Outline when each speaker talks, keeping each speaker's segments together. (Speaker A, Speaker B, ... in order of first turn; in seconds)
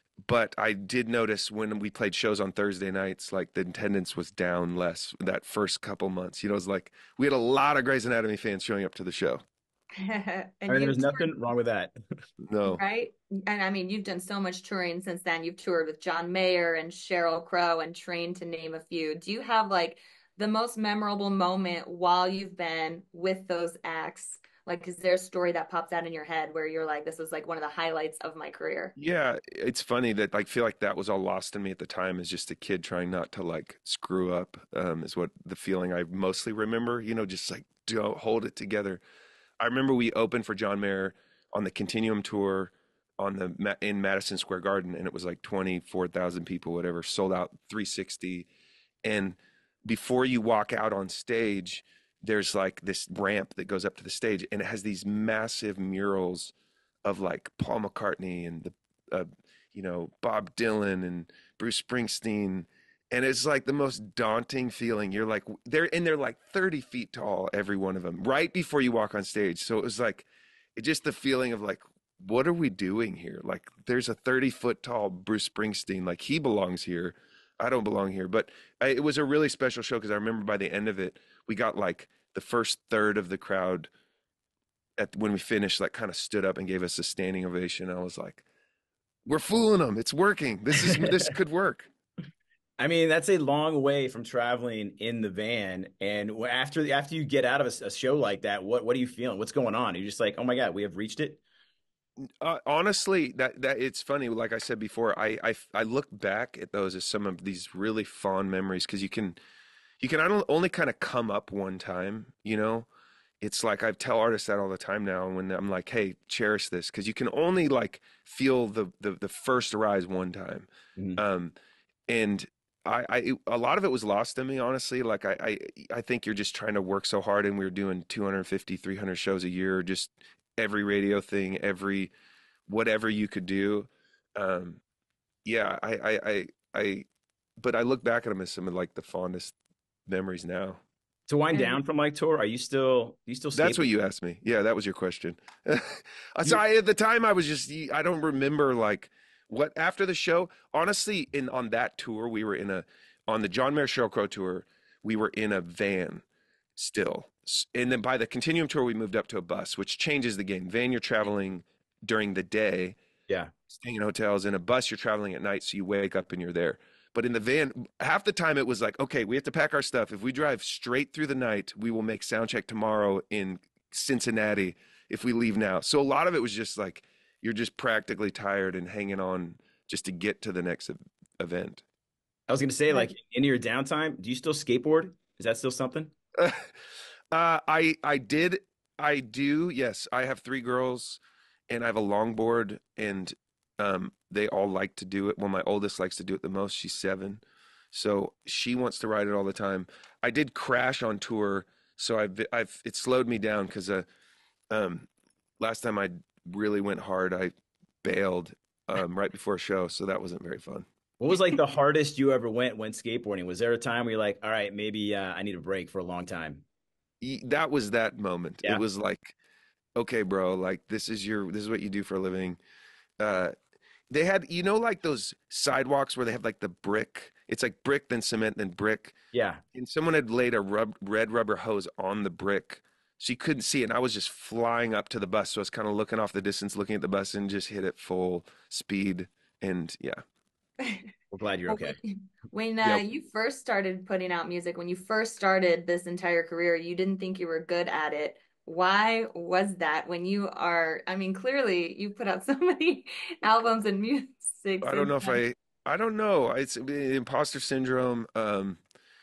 Speaker A: 0.2-9.4, 12.4-12.8, 28.9-39.0, 39.6-48.5, 49.0-56.5, 57.0-83.9, 85.0-88.4, 89.2-91.9, 102.4-109.4, 110.0-112.9, 113.4-121.5, 122.1-132.1, 132.7-134.8, 135.4-137.1, 137.6-139.5, 140.1-140.8, 143.5-156.2, 156.8-163.0, 163.7-181.8, 186.4-186.7, 187.3-204.1, 204.7-205.1, 205.6-210.8, 217.2-219.3, 219.9-222.6, 223.2-223.5, 224.1-229.1, 229.7-240.2, 254.8-258.8
Speaker B: 10.0-11.3, 12.7-28.9, 141.5-141.8, 240.8-241.1, 241.7-255.4
Speaker C: 10.7-12.0, 92.8-101.4, 141.3-143.9, 182.5-186.1, 211.2-216.6, 229.3-229.6, 241.3-242.0